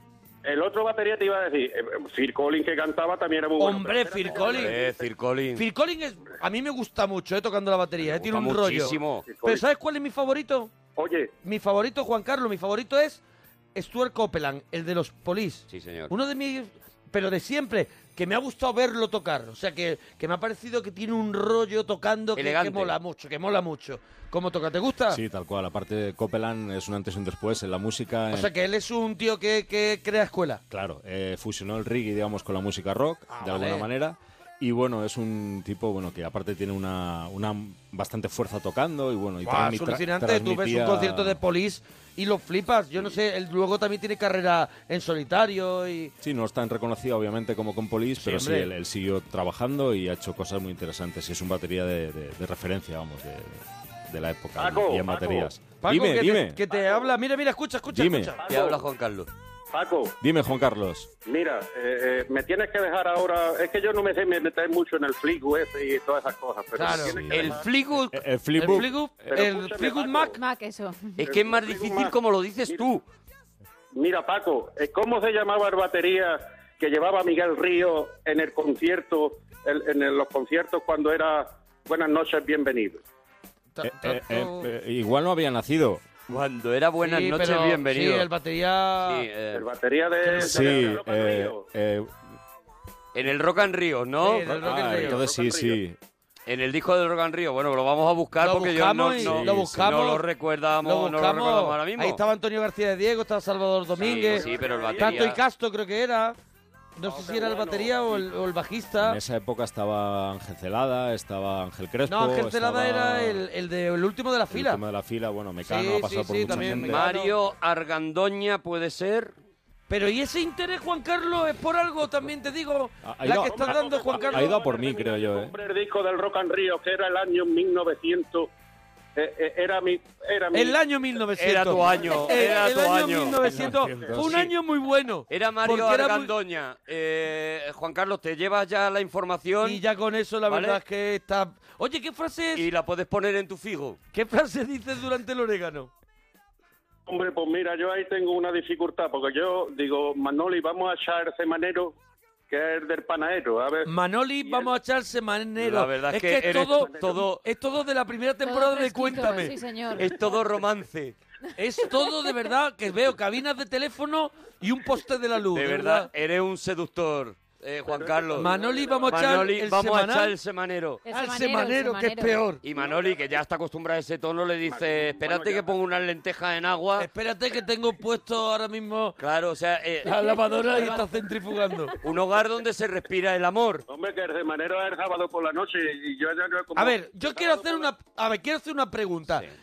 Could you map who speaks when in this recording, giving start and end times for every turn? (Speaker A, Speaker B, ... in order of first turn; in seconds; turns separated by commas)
Speaker A: 0.5-5.1, Speaker B: 3.6-4.8, Speaker C: 4.3-5.6, Speaker B: 5.5-10.7, Speaker C: 8.0-9.3, Speaker A: 9.3-9.6, Speaker A: 11.0-11.3, Speaker B: 11.4-13.2, Speaker B: 13.8-25.2, Speaker C: 15.7-16.1, Speaker C: 22.4-22.9, Speaker D: 25.1-28.5, Speaker B: 28.3-30.6, Speaker D: 30.7-41.4, Speaker B: 33.3-33.9, Speaker B: 39.4-46.1, Speaker D: 46.2-56.6, Speaker B: 48.2-48.7, Speaker A: 54.6-55.5, Speaker B: 55.8-58.4, Speaker A: 56.7-57.1, Speaker D: 57.9-58.3, Speaker A: 58.4-58.8, Speaker C: 58.5-59.3, Speaker A: 59.7-60.1, Speaker D: 60.2-61.1, Speaker A: 61.2-67.7, Speaker B: 66.7-67.2, Speaker D: 66.9-68.9, Speaker C: 67.3-68.2, Speaker B: 68.6-70.4, Speaker A: 69.3-70.4, Speaker E: 70.4-71.2, Speaker C: 71.2-73.0, Speaker A: 71.3-72.2, Speaker A: 73.9-83.0, Speaker B: 83.8-84.7, Speaker D: 83.8-86.0, Speaker C: 86.3-88.3, Speaker B: 87.0-89.3, Speaker C: 89.0-89.7, Speaker A: 89.5-91.6, Speaker D: 90.2-92.3, Speaker C: 93.1-94.6, Speaker B: 94.2-95.2, Speaker D: 94.5-96.0, Speaker A: 95.0-95.8, Speaker C: 96.5-102.2, Speaker B: 98.4-100.3, Speaker D: 99.2-99.9, Speaker B: 100.8-106.4, Speaker C: 104.0-105.4, Speaker A: 104.0-105.4, Speaker B: 107.0-109.2, Speaker A: 107.0-108.3, Speaker D: 109.0-113.4, Speaker B: 112.1-114.8, Speaker D: 114.5-117.0, Speaker B: 115.7-117.3, Speaker C: 116.5-119.3, Speaker B: 119.9-124.6, Speaker D: 123.0-125.5, Speaker A: 123.5-128.5, Speaker A: 129.2-130.8, Speaker B: 130.5-136.3, Speaker C: 131.4-134.5, Speaker D: 133.5-134.4, Speaker C: 135.3-139.8, Speaker B: 139.6-142.7, Speaker C: 140.5-140.8, Speaker C: 142.6-144.0, Speaker B: 144.1-145.9, Speaker A: 147.1-151.9, Speaker A: 152.5-153.9, Speaker B: 153.9-159.6, Speaker A: 154.4-154.7, Speaker C: 155.6-157.4, Speaker A: 156.5-157.2, Speaker E: 158.4-160.1, Speaker C: 160.0-161.2, Speaker B: 161.6-166.1, Speaker C: 165.5-168.5, Speaker A: 167.9-169.4, Speaker B: 168.4-170.3, Speaker C: 169.1-171.1, Speaker E: 171.1-172.4, Speaker B: 171.1-172.6, Speaker C: 172.6-177.1, Speaker A: 172.8-173.2, Speaker A: 174.7-175.7, Speaker B: 177.0-179.2, Speaker C: 179.2-181.0, Speaker B: 180.0-182.0, Speaker C: 182.0-183.8, Speaker A: 183.9-187.9, Speaker B: 186.8-189.5